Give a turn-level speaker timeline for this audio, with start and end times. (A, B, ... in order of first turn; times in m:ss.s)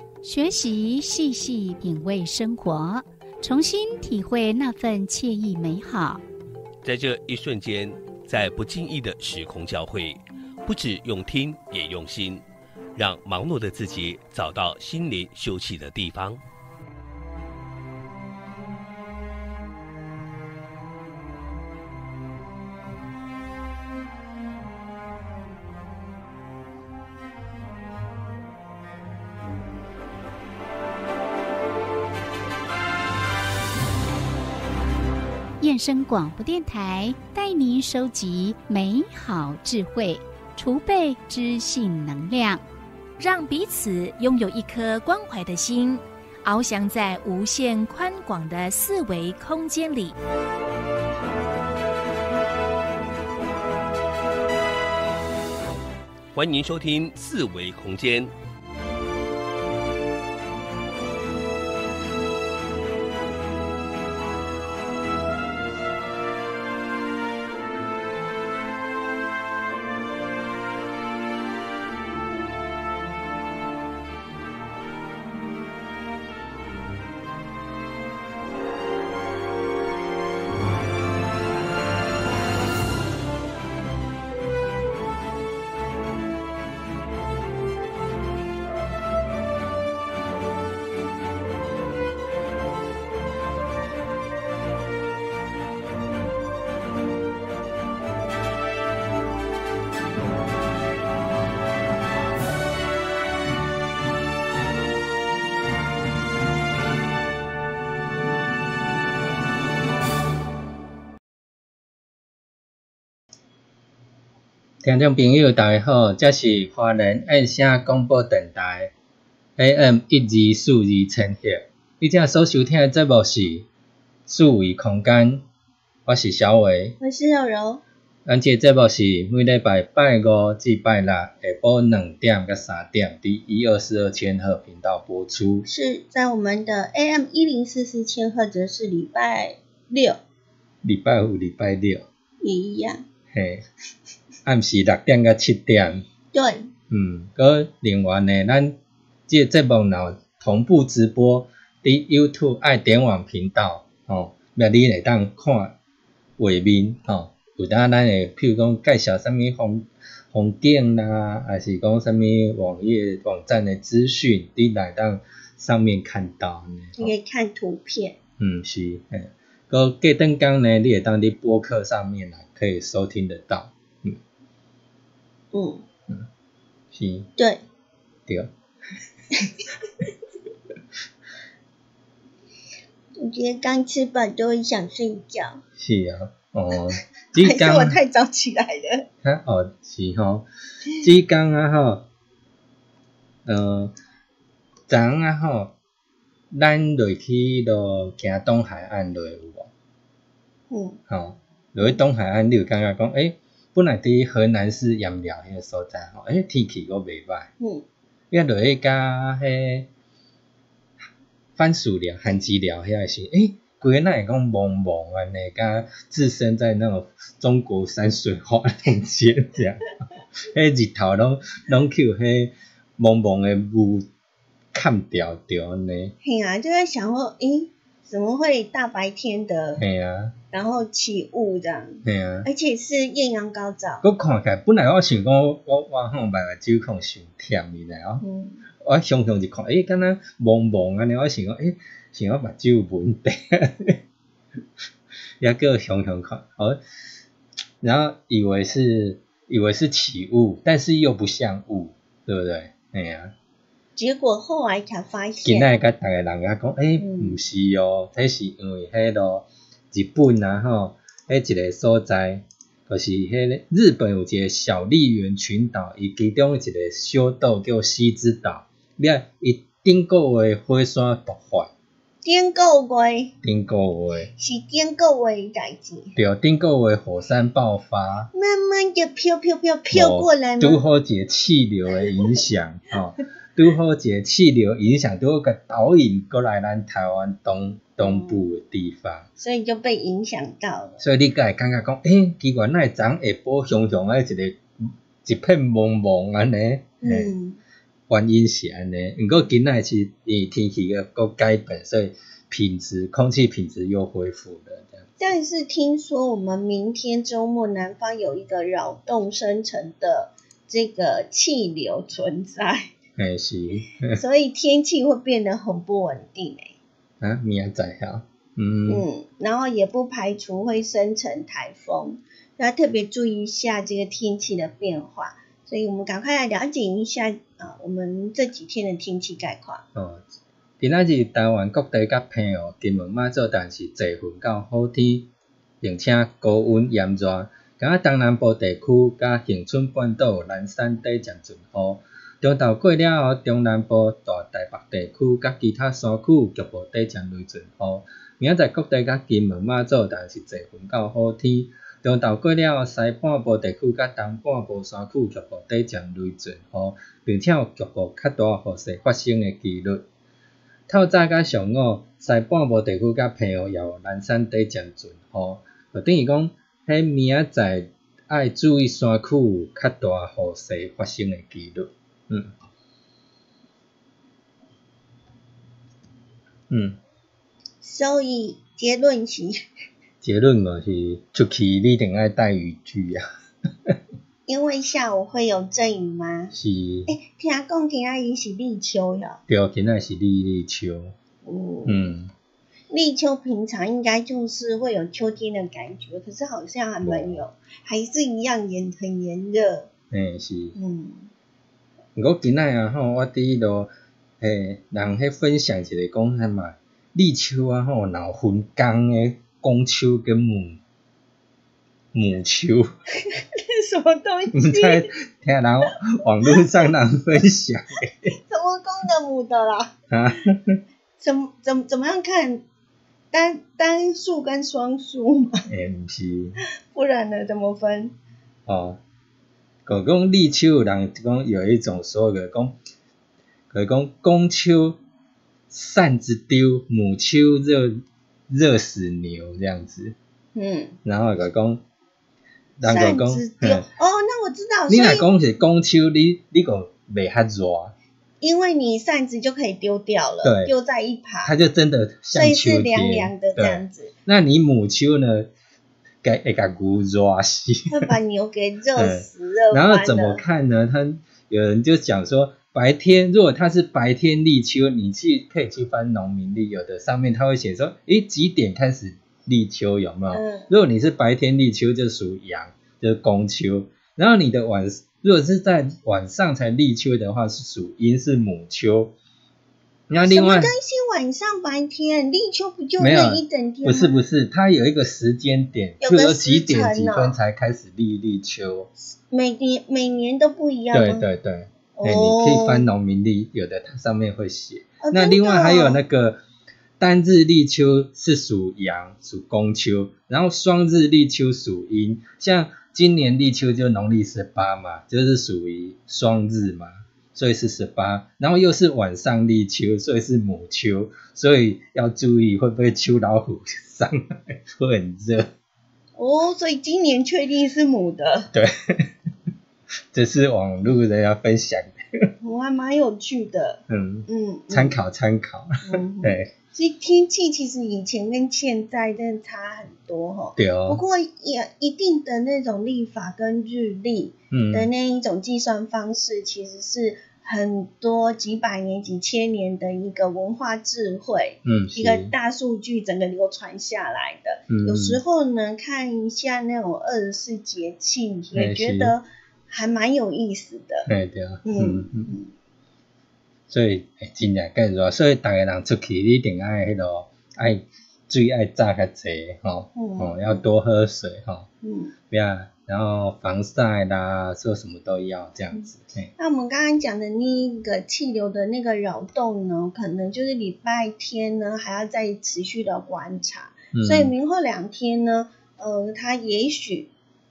0:00.2-0:06.2 A
0:06.8-0:12.4 B
0:13.0-0:16.4 B
0:35.6-0:42.6 A
0:43.2-0:50.2 C
0:56.3-0:58.3 B
1:54.8-1:58.9 D
1:59.6-2:03.6 D
2:04.3-2:05.4 D
2:06.0-2:07.0 D
2:07.0-2:07.8 E
2:08.2-2:15.7 D
2:15.6-2:20.2 E
2:20.8-2:22.1 D
2:22.4-2:23.0 E
2:23.3-2:23.6 D
2:24.4-2:26.0 D
2:26.3-2:26.7 E
2:26.9-2:28.8 D
2:29.3-2:35.8 D
2:36.4-2:47.1 D
2:47.0-2:48.2 E
2:48.4-2:54.2 D
2:55.5-2:55.8 E
2:56.9-2:57.3 D
2:57.4-2:57.6 E
2:58.3-2:58.5 D
3:03.2-3:05.6 E
3:05.8-3:08.0 D
3:07.4-3:09.1 E
3:09.2-3:10.4 D
3:11.0-3:12.0 D
3:13.4-3:13.9 D
3:14.9-3:15.7 D
3:16.5-3:19.7 D
3:20.7-3:21.0 E
3:21.1-3:27.5 D
3:27.6-3:27.8 E
3:28.3-3:29.9 D
3:31.6-3:39.9 D
3:40.4-3:44.1 D
3:44.7-3:46.1 D
3:46.2-3:49.8 E
3:49.8-3:50.3 D
3:50.5-3:54.0 E
3:52.0-3:52.5 D
3:54.0-3:58.2 D
3:58.2-3:58.6 E
3:58.8-4:04.0 D
4:05.4-4:06.8 D
4:07.8-4:13.3 D
4:14.0-4:15.7 E
4:15.4-4:31.7 D
4:17.0-4:17.4 E
4:32.2-4:33.3 E
4:33.4-4:34.3 D
4:34.4-4:36.1 E
4:36.1-4:38.3 D
4:38.3-4:40.8 E
4:39.9-4:49.3 D
4:48.0-4:48.4 E
4:49.4-4:51.0 E
4:51.0-4:57.3 D
4:57.0-4:57.6 E
4:58.1-5:05.1 D
5:05.2-5:12.9 E
5:13.2-5:14.2 D
5:14.1-5:16.8 E
5:17.2-5:19.0 D
5:18.9-5:29.8 E
5:29.9-5:30.2 D
5:30.8-5:35.3 D
5:35.8-6:00.0 D
6:00.9-6:12.5 D
6:16.7-6:17.0 D
6:17.8-6:19.6 E
6:20.2-6:23.2 D
6:24.4-6:26.5 E
6:26.5-6:27.1 D
6:27.1-6:29.4 E
6:29.5-6:31.1 D
6:31.4-6:32.1 E
6:31.8-6:32.3 D
6:32.9-6:39.9 E
6:37.0-6:37.4 D
6:40.1-6:40.8 D
6:40.7-6:41.3 E
6:42.2-6:50.8 D
6:52.1-6:52.9 D
6:53.3-6:55.1 E
6:54.5-6:58.3 D
6:58.5-6:59.9 E
7:00.1-7:00.8 D
7:01.2-7:02.6 E
7:03.3-7:05.7 E
7:05.7-7:06.6 D
7:06.9-7:08.1 E
7:08.6-7:09.0 D
7:09.8-7:12.8 D
7:13.7-7:15.0 D
7:15.7-7:20.2 D
7:20.5-7:21.0 E
7:21.0-7:21.8 D
7:22.8-7:23.8 D
7:22.8-7:25.3 E
7:24.9-7:27.9 D
7:28.4-7:31.5 E
7:30.4-7:30.7 D
7:31.4-7:35.5 D
7:32.3-7:34.1 E
7:36.2-7:38.1 D
7:37.9-7:40.4 E
7:39.0-7:59.1 D
7:50.3-7:50.7 E
8:00.1-8:00.7 D
8:00.2-8:04.1 E
8:03.0-8:08.9 D
8:06.0-8:07.4 E
8:09.3-8:11.2 E
8:10.9-8:16.4 D
8:12.0-8:12.9 E
8:15.0-8:16.0 E
8:17.0-8:35.5 D
8:36.2-8:38.5 E
8:38.5-8:39.1 D
8:40.1-8:42.3 D
8:42.4-8:45.0 E
8:43.9-8:46.5 D
8:45.8-9:11.1 E
8:50.6-8:51.0 D
8:54.5-8:54.9 D
9:01.6-9:02.3 D
9:04.7-9:05.2 D
9:08.5-9:09.2 D
9:11.1-9:12.3 D
9:11.6-9:12.5 E
9:13.7-9:21.7 D
9:19.9-9:20.6 E
9:21.8-9:22.1 E
9:22.3-9:26.3 D
9:26.4-9:37.1 E
9:33.9-9:34.3 D